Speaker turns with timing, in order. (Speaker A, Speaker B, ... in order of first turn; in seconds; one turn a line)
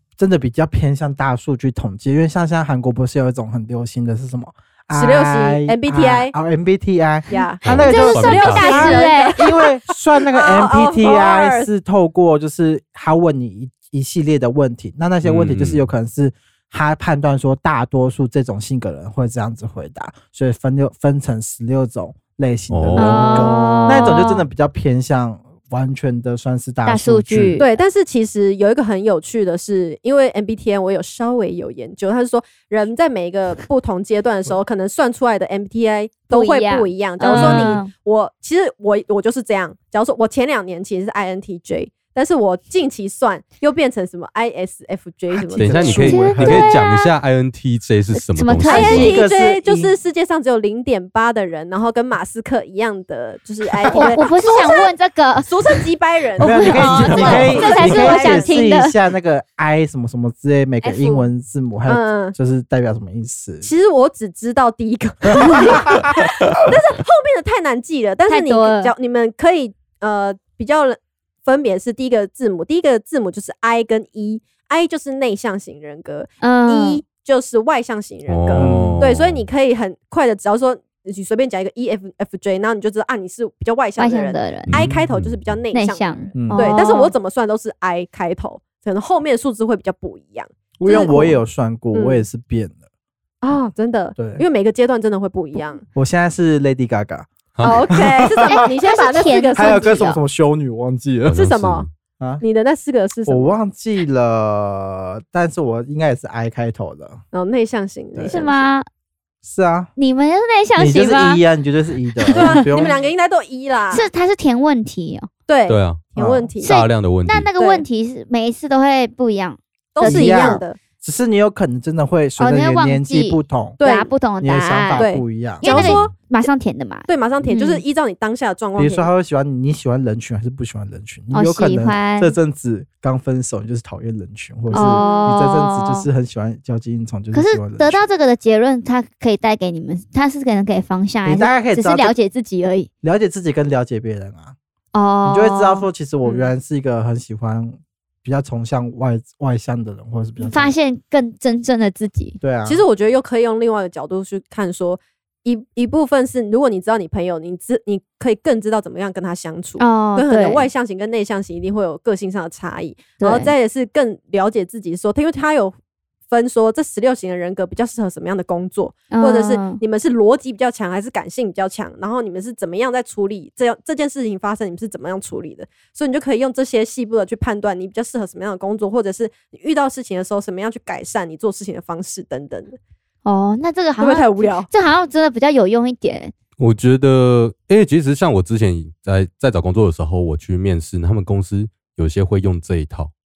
Speaker A: 0.2-27.6
Speaker B: 4.9-6.3
Speaker B: 7.3-9.7
Speaker C: 7.6-9.0
Speaker D: 7.8-9.4
Speaker B: 10.3-11.7
Speaker C: 15.2-15.9
Speaker C: 22.7-23.6
Speaker D: 23.0-24.5
Speaker D: 26.9-27.8
Speaker B: 27.6-46.2
Speaker D: 36.3-37.9
Speaker A: 37.4-37.6
Speaker A: 45.3-46.7
Speaker C: 45.6-49.1
Speaker D: 46.0-47.1
Speaker D: 48.1-49.2
Speaker B: 48.7-54.9
Speaker A: 48.7-49.9
Speaker A: 53.8-54.2
Speaker D: 53.9-55.5
Speaker B: 55.5-58.6
Speaker D: 56.4-59.0
Speaker A: 56.4-63.7
Speaker C: 56.8-57.7
Speaker D: 60.8-61.3
Speaker B: 61.9-62.4
Speaker B: 63.6-91.2
Speaker A: 65.4-66.0
Speaker D: 68.3-68.9
Speaker D: 76.4-77.0
Speaker C: 78.3-79.5
Speaker A: 78.5-79.0
Speaker D: 84.0-84.7
Speaker C: 84.7-85.6
Speaker D: 85.7-87.1
Speaker A: 86.3-86.8
Speaker A: 90.8-92.8
Speaker D: 90.9-91.4
Speaker B: 91.9-92.2
Speaker B: 93.4-95.8
Speaker A: 94.2-94.4
Speaker A: 96.0-97.3
Speaker C: 97.6-97.9
Speaker B: 97.6-100.1
Speaker A: 97.9-98.6
Speaker D: 98.5-100.2
Speaker A: 99.5-101.5
Speaker C: 101.3-101.9
Speaker B: 101.3-101.9
Speaker B: 102.4-103.5
Speaker A: 103.3-107.2
Speaker B: 107.3-108.6
Speaker A: 108.1-108.5
Speaker D: 108.3-108.9
Speaker A: 109.4-109.9
Speaker D: 110.0-111.4
Speaker A: 110.8-113.0
Speaker B: 112.3-114.1
Speaker D: 113.9-115.3
Speaker B: 115.5-116.7
Speaker C: 115.7-116.0
Speaker A: 116.2-116.5
Speaker C: 116.6-117.5
Speaker D: 116.6-120.6
Speaker B: 117.6-117.8
Speaker B: 120.0-120.8
Speaker A: 120.0-123.8
Speaker D: 122.4-125.1
Speaker B: 123.8-124.1
Speaker A: 124.4-125.9
Speaker B: 125.0-126.2
Speaker D: 125.6-127.8
Speaker B: 127.1-129.1
Speaker A: 128.8-138.0
Speaker D: 131.3-132.3
Speaker B: 134.7-135.3
Speaker D: 134.7-136.1
Speaker D: 137.3-142.9
Speaker A: 141.2-142.1
Speaker A: 143.0-144.6
Speaker D: 144.9-145.9
Speaker A: 145.2-150.7
Speaker B: 146.2-146.5
Speaker D: 150.4-152.4
Speaker A: 152.4-152.8
Speaker B: 152.7-165.8
Speaker D: 159.8-160.7
Speaker D: 163.2-163.5
Speaker B: 166.3-182.8
Speaker D: 169.1-169.8
Speaker D: 183.2-186.3
Speaker B: 184.0-184.7
Speaker C: 186.6-193.1